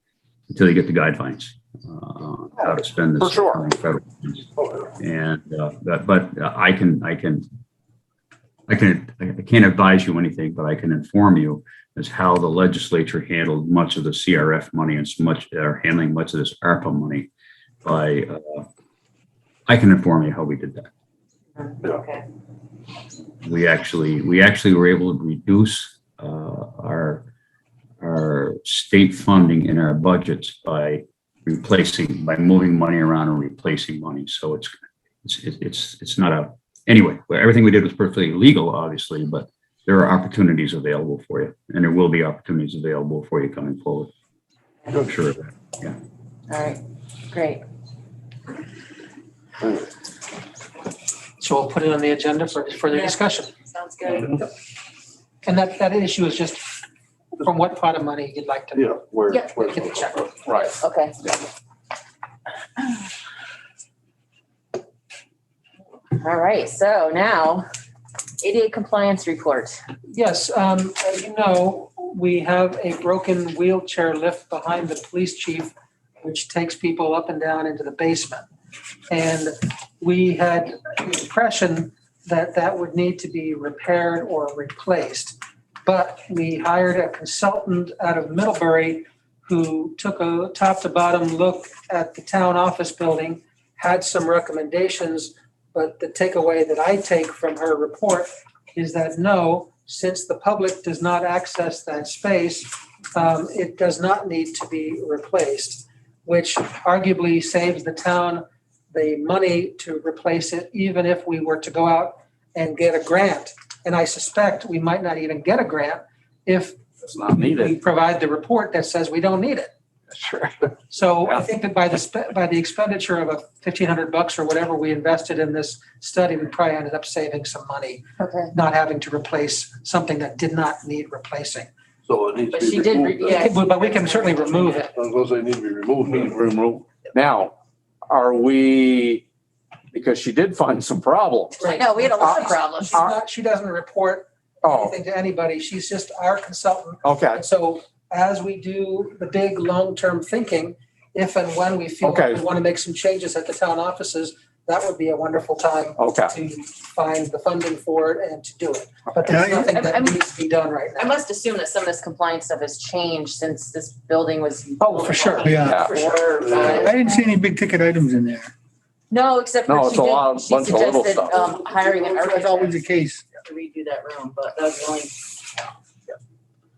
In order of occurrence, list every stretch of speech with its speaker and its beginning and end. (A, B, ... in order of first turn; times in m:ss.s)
0:00.5-0:04.5 A
0:03.2-0:03.6 B
0:04.6-0:04.8 C
0:05.0-0:07.4 A
0:08.7-0:17.3 A
0:17.8-0:18.7 A
0:19.7-0:20.9 A
0:21.6-0:22.2 D
0:23.4-0:27.3 A
0:28.0-0:44.1 A
0:44.9-0:46.0 A
0:46.5-0:47.6 D
0:51.4-0:53.5 E
0:52.8-0:54.4 D
0:55.4-0:56.6 E
0:57.4-0:59.0 E
0:58.8-1:00.1 C
0:59.3-1:01.3 D
0:59.6-1:00.3 E
1:00.4-1:00.7 B
1:06.2-1:07.6 D
1:08.4-1:09.8 D
1:10.1-1:18.4 E
1:19.1-1:56.8 E
1:57.0-1:57.7 B
1:57.3-1:59.7 E
2:00.9-2:11.7 E
2:08.2-2:08.5 D
2:12.0-2:13.5 C
2:12.5-2:14.9 D
2:13.2-2:15.0 E
2:14.9-2:16.4 C
2:16.1-2:17.5 B
2:18.1-2:19.2 B
2:19.9-2:23.1 B
2:21.6-2:41.2 E
2:21.6-2:23.0 D
2:24.6-2:25.0 B
2:27.0-2:27.4 B
2:32.0-2:32.4 B
2:36.0-2:36.3 B
2:39.2-2:39.7 F
2:39.6-2:40.2 D
2:41.0-2:47.0 D
2:44.8-2:46.0 E
2:45.4-2:45.8 F
2:45.6-2:45.9 B
2:46.6-2:48.5 F
2:49.1-2:52.8 D
2:49.7-2:51.3 B
2:51.6-2:53.2 F
2:53.3-2:55.7 D